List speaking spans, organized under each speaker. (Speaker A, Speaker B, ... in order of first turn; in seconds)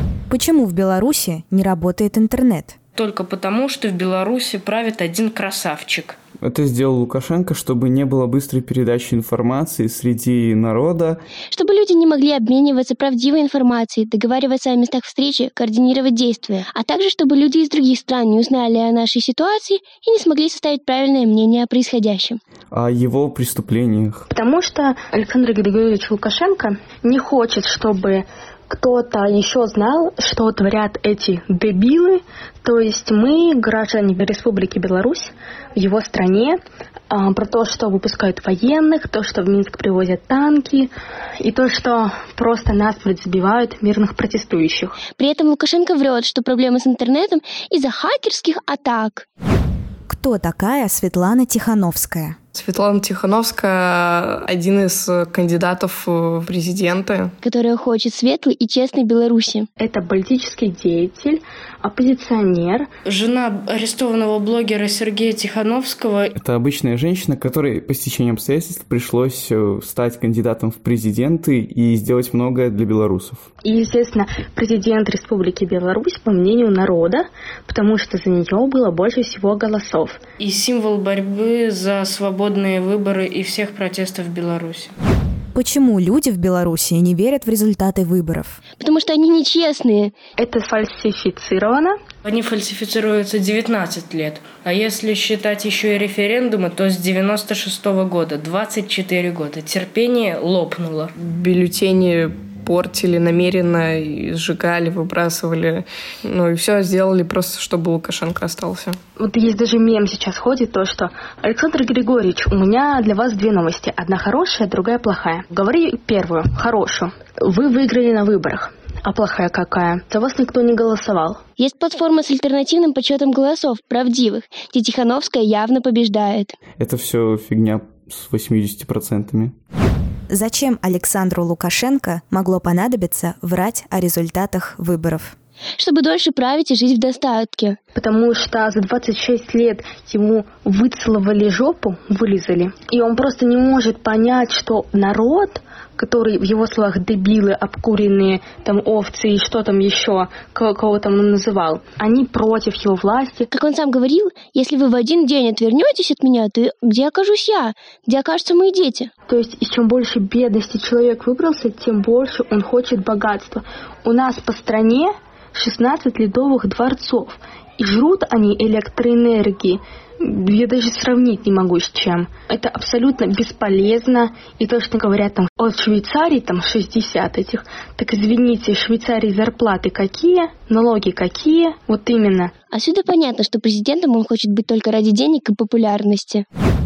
Speaker A: 0.3-2.8, 50.1-52.4, 85.5-88.6, 130.3-135.3
Speaker B: 2.9-6.2, 63.0-66.3, 80.4-84.9, 92.2-101.1
Speaker C: 6.4-11.2, 22.7-24.3, 66.3-73.5, 126.8-129.5
Speaker D: 11.5-22.4, 45.1-49.2, 57.4-59.7, 88.8-90.1, 121.6-126.6, 135.8-137.8, 153.5-159.1, 182.7-186.4
Speaker E: 24.3-36.6, 37.1-45.0, 59.8-62.9, 73.6-80.2, 90.4-92.0, 109.2-121.4, 137.9-153.5, 159.3-182.5
Speaker F: 52.5-57.3, 101.2-109.0